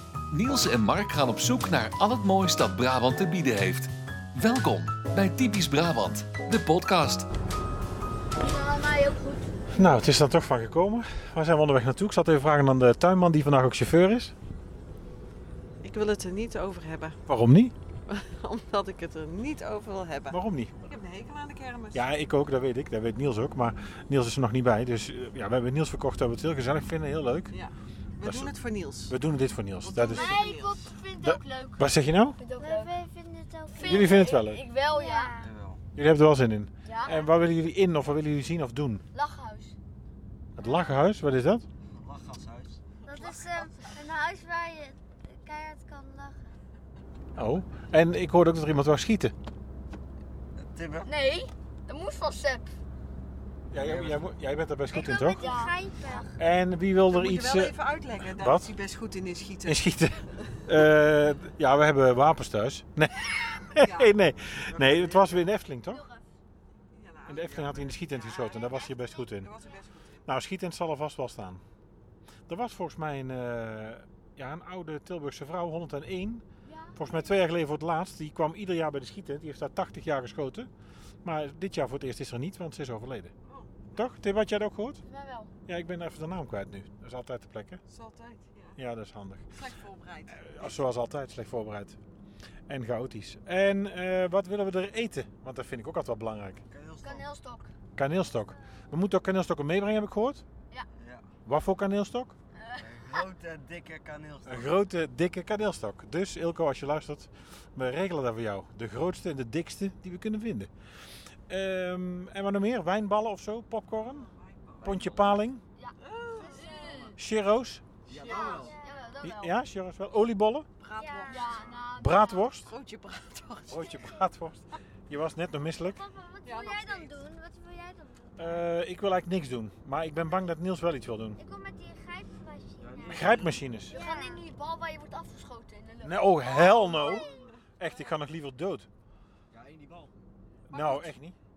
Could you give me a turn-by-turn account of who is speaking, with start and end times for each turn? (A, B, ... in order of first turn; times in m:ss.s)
0:00.3-0:07.3 A
0:08.4-0:09.5 B
0:09.7-0:14.3 C
0:15.8-0:17.2 D
0:17.3-0:17.7 C
0:18.1-0:22.1 D
0:20.3-0:20.7 C
0:21.9-0:27.5 C
0:27.5-0:29.2 D
0:28.2-0:28.5 C
0:29.1-0:30.3 C
0:29.8-0:30.8 D
0:30.1-0:32.9 B
0:31.2-0:32.4 C
0:32.5-0:34.3 E
0:33.7-0:35.3 B
0:33.8-0:34.6 C
0:34.9-0:35.5 E
0:35.4-0:35.8 F
0:36.0-0:39.0 C
0:36.9-0:37.2 B
0:39.1-0:39.7 B
0:40.6-0:41.6 C
0:41.9-0:42.8 F
0:43.1-0:46.5 E
0:43.1-0:43.7 B
0:47.4-0:49.3 C
0:50.6-0:51.1 F
0:51.0-0:52.7 B
0:53.7-0:55.4 C
0:53.8-0:54.3 F
0:54.9-0:56.3 E
0:55.0-0:56.2 B
0:56.4-0:57.7 C
0:57.1-0:59.9 D
0:58.4-0:58.7 C
0:59.7-1:06.0 C
1:03.8-1:04.2 D
1:04.7-1:05.3 D
1:05.9-1:06.2 B
1:06.9-1:10.3 D
1:07.3-1:09.5 C
1:10.3-1:11.6 C
1:12.5-1:16.4 C
1:16.7-1:17.0 B
1:17.0-1:20.7 C
1:21.2-1:23.3 C
1:23.5-1:23.8 D
1:23.9-1:25.0 C
1:25.0-1:25.5 B
1:25.7-1:27.8 C
1:27.9-1:28.8 D
1:28.8-1:29.4 C
1:29.5-1:30.8 D
1:30.4-1:32.0 C
1:32.7-1:36.6 C
1:36.7-1:37.3 F
1:37.0-1:37.7 B
1:38.0-1:40.4 C
1:41.0-1:41.3 F
1:41.5-1:42.3 C
1:42.6-1:43.2 B
1:42.8-1:44.8 F
1:44.5-1:50.7 C
1:51.5-1:54.3 C
1:54.0-1:55.2 D
1:54.8-1:55.4 F
1:54.8-1:55.6 C
1:55.8-1:57.1 B
1:56.0-1:57.2 D
1:56.3-1:57.1 E
1:57.2-1:57.8 C
1:58.1-1:58.8 F
1:58.1-1:58.8 D
1:58.3-1:59.1 E
1:58.3-1:59.6 B
1:59.2-2:00.7 C
2:00.8-2:01.7 D
2:01.0-2:01.8 E
2:01.3-2:02.4 B
2:02.0-2:02.7 C
2:02.7-2:04.0 D
2:03.7-2:06.0 C
2:05.8-2:08.6 E
2:06.4-2:07.2 D
2:08.4-2:11.4 C
2:11.4-2:14.5 E
2:12.8-2:13.6 F
2:13.1-2:14.0 C
2:13.9-2:17.3 B
2:16.0-2:17.3 C
2:16.8-2:17.5 E
2:17.3-2:17.6 D
2:17.8-2:18.9 C
2:19.5-2:20.1 F
2:20.7-2:21.2 D
2:20.7-2:21.3 C